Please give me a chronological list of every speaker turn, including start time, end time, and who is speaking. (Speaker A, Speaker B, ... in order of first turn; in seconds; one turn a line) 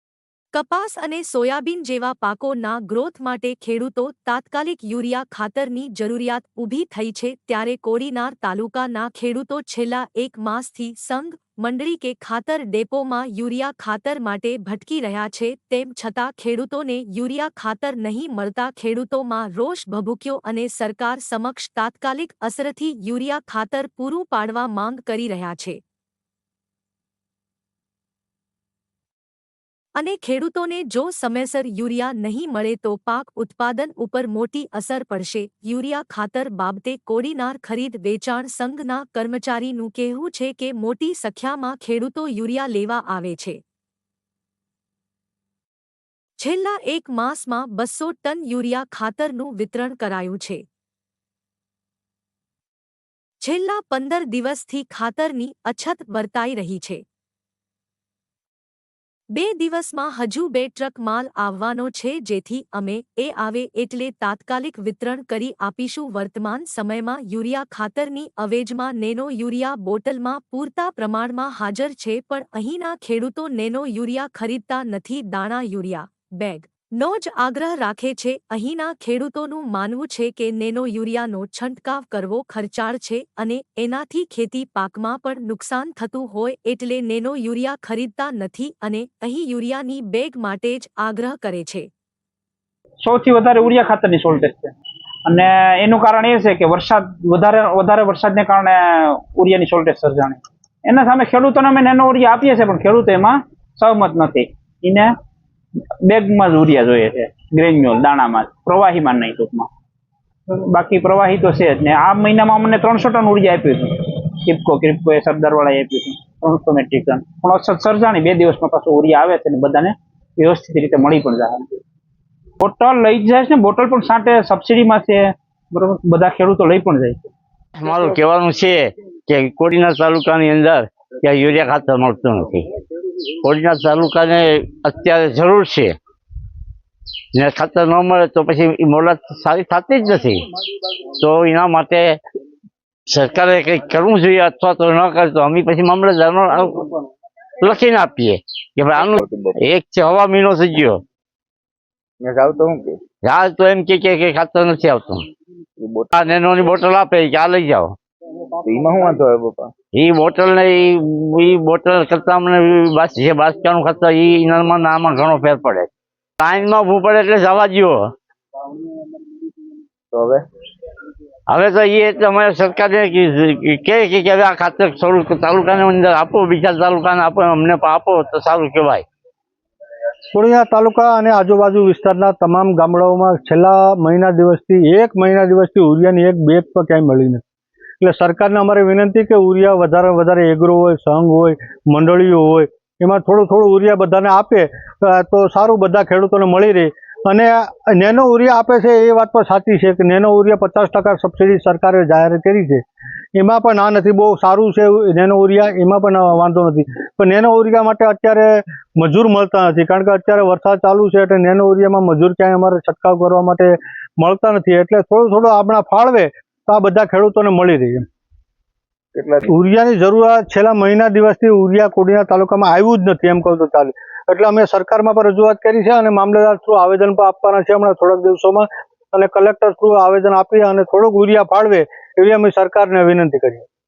Speaker A: 0.5-25.8
Speaker A: 29.9-43.6
Speaker A: 46.4-50.6
Speaker A: 53.4-57.0
Speaker A: 59.3-91.9
Speaker B: 93.0-94.8
Speaker B: 95.2-105.1
Speaker B: 106.0-109.7
Speaker B: 110.5-121.8
Speaker B: 122.6-127.3
Speaker C: 127.8-132.7
Speaker C: 133.4-135.9
Speaker C: 137.3-140.4
Speaker C: 141.2-142.2
Speaker C: 143.1-146.9
Speaker C: 147.6-151.0
Speaker D: 149.2-149.6
Speaker D: 152.2-153.0
Speaker C: 153.2-155.2
Speaker D: 155.8-156.1
Speaker C: 156.1-158.0
Speaker D: 158.7-159.7
Speaker C: 159.9-165.9
Speaker C: 166.4-168.1
Speaker D: 170.1-170.4
Speaker C: 171.5-179.1
Speaker E: 180.3-187.4
Speaker E: 188.0-202.8
Speaker E: 203.3-218.1
Speaker D: 219.1-219.5
Speaker E: 219.4-233.7